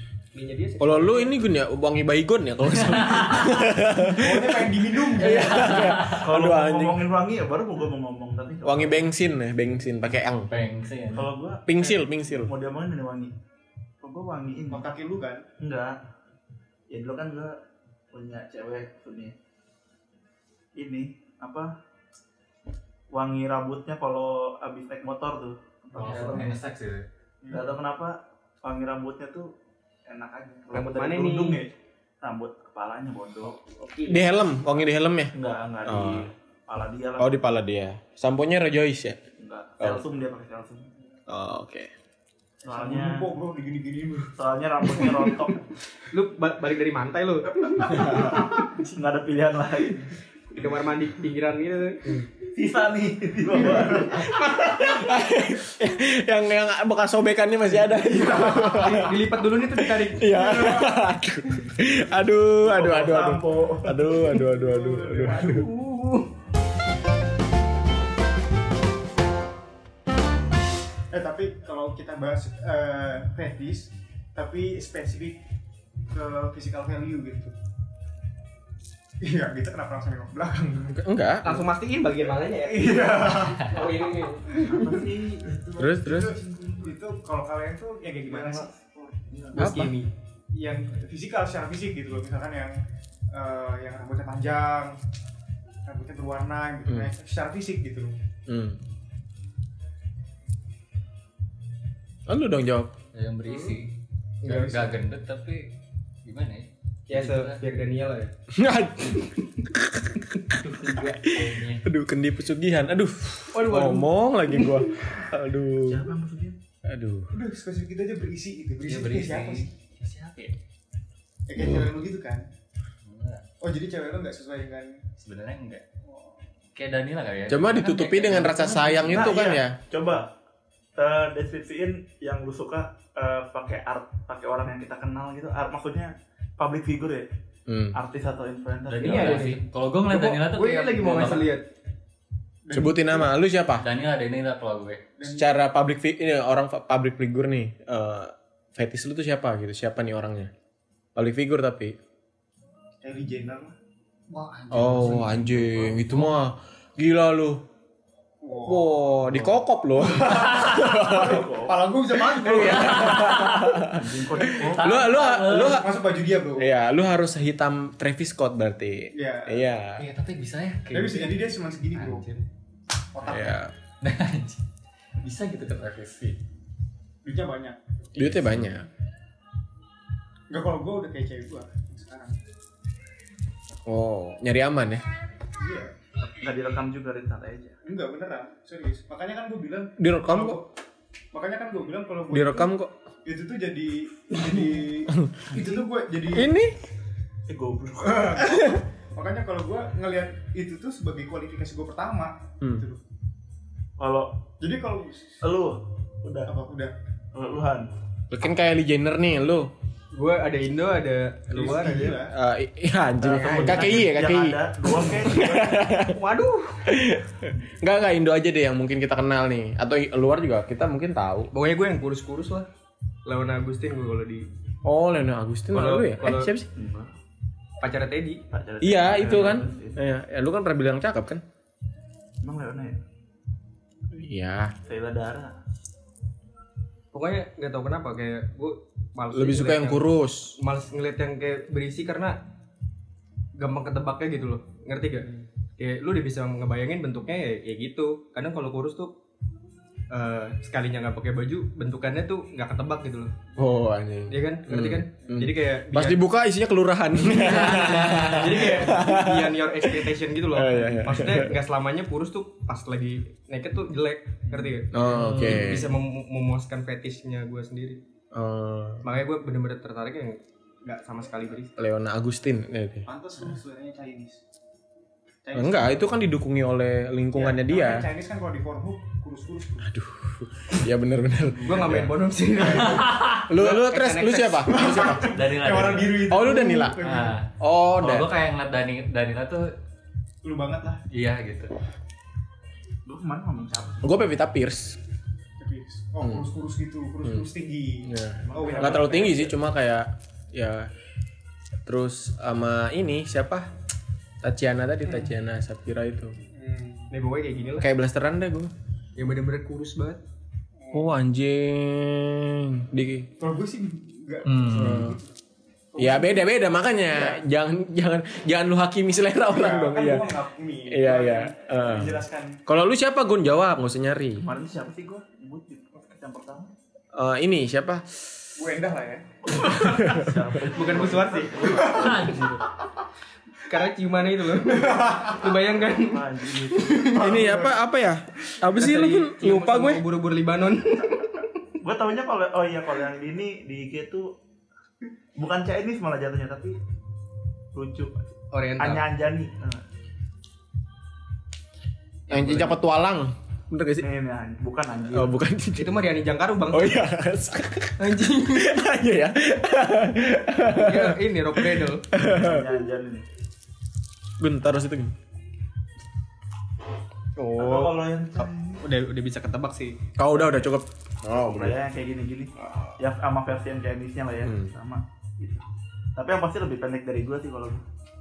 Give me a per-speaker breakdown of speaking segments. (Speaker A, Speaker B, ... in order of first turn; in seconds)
Speaker A: 0.3-1.4, 30.7-31.6, 33.8-34.3, 46.0-48.6, 50.5-52.2, 54.4-54.7, 58.5-60.3, 65.3-66.3, 81.4-84.6, 89.5-90.1, 104.4-104.8, 107.1-108.3, 113.5-115.0, 139.0-141.7, 210.1-212.2, 213.2-214.0, 215.8-216.9, 221.5-222.7, 223.2-224.4, 225.7-226.5, 227.8-228.4, 237.1-240.1, 240.6-242.4, 243.6-249.2, 250.1-253.4, 254.3-256.2, 257.2-268.0, 269.0-271.8, 281.6-284.9, 307.1-307.9, 309.1-310.2, 330.7-331.7, 333.6-337.4, 338.7-341.5, 348.5-349.1, 352.3-352.7, 355.8-357.0, 358.0-358.9, 360.7-362.0, 368.8-370.0
Speaker B: 0.8-7.0, 8.6-10.5, 11.7-12.5, 34.0-35.3, 35.8-36.3, 37.2-39.2, 41.3-41.9, 54.8-65.7, 80.9-81.6, 85.8-86.3, 89.5-89.9, 98.5-98.8, 102.3-102.9, 108.5-110.3, 111.3-116.1, 116.8-117.3, 127.5-129.8, 137.7-138.0, 142.7-143.8, 145.3-150.5, 151.1-151.9, 154.7-157.6, 158.7-161.5, 162.2-165.9, 166.6-170.1, 173.2-173.7, 178.2-178.9, 183.8-185.1, 190.0-190.6, 192.3-192.9, 195.2-195.5, 196.3-196.8, 198.5-198.8, 208.3-209.7, 212.3-216.2, 216.8-221.5, 224.8-226.7, 228.8-231.4, 234.1-234.7, 239.3-240.6, 253.6-261.6, 264.9-265.9, 268.3-269.0, 271.8-273.1, 275.5-278.1, 279.9-282.1, 283.5-287.0, 287.6-288.3, 294.0-295.0, 298.0-300.9, 301.9-303.7, 304.4-306.4, 307.8-308.7, 310.9-313.3, 314.7-315.2, 316.0-320.3, 320.9-324.5, 327.1-328.4, 329.6-330.4, 337.1-340.0, 352.3-354.1, 355.1-355.9, 356.7-362.7, 364.4-365.1, 367.4-367.9, 370.1-371.8, 374.4-374.7
Speaker C: 2.7-3.7, 5.2-6.3, 10.5-11.3, 25.9-27.1, 103.1-103.9, 104.5-107.6, 110.5-111.9, 118.8-120.5, 123.0-123.4, 125.2-125.8, 126.7-129.4, 138.9-141.6, 143.8-145.0, 154.3-156.4, 160.5-160.8, 162.6-165.8, 170.0-172.4, 174.0-174.6, 175.2-176.4, 257.8-258.6, 282.9-283.4, 285.1-286.4, 287.0-289.7, 291.1-291.7, 314.4-315.0, 331.7-332.7
Speaker D: 4.1-5.7, 14.7-15.4, 27.4-27.7, 42.6-44.3, 47.9-48.8, 60.2-61.1, 64.0-65.7, 71.1-75.4, 76.1-77.5, 79.2-81.0, 82.4-83.8, 84.5-88.8, 90.5-92.8, 93.3-95.0, 95.8-98.1, 104.5-104.9, 117.3-119.7, 121.5-122.5, 123.6-125.0, 126.0-126.4, 142.6-143.3, 145.2-145.5, 153.0-153.7, 158.4-159.4, 159.9-163.4, 165.5-166.7, 169.1-169.6, 170.9-172.3, 173.1-173.6, 177.2-178.3, 180.5-182.4, 185.6-185.9, 187.8-190.7, 191.3-192.7, 193.2-196.5, 198.0-203.0, 204.6-205.4, 206.4-206.9, 211.5-212.3, 215.4-215.8, 273.1-274.4, 275.4-276.1, 277.3-279.9, 282.6-283.1, 284.6-287.4, 290.4-291.0, 295.6-299.5, 305.0-305.3, 306.5-307.1, 310.8-311.1, 313.4-315.3, 315.9-316.5, 317.0-317.4, 319.5-322.6, 328.6-329.9, 331.7-332.3, 334.8-335.4, 337.1-337.8
Speaker E: 5.5-9.1, 11.1-13.3, 14.0-14.9, 15.6-16.0, 16.9-17.6, 18.1-19.3, 20.8-21.7, 23.1-26.6, 27.5-29.5, 30.1-33.6, 35.3-37.4, 39.4-40.9, 42.6-43.3, 44.3-45.6, 48.1-50.1, 52.4-55.1, 62.6-64.0, 84.7-85.6, 86.4-86.9, 88.2-89.7, 115.7-116.6, 129.1-130.3, 131.0-137.3, 137.9-139.5, 161.1-161.8, 163.9-165.0, 186.2-187.8, 197.5-198.5, 204.0-204.4, 205.4-206.5, 207.3-207.9, 213.2-215.7, 226.7-227.1, 228.5-230.0, 232.4-233.0, 234.8-235.5, 293.0-294.2, 298.4-299.1, 324.4-326.7, 329.5-332.4, 335.9-337.1, 341.8-344.3, 345.4-346.8, 347.7-349.8, 354.0-355.3, 362.1-363.2, 367.6-368.8, 371.3-375.6, 376.1-377.8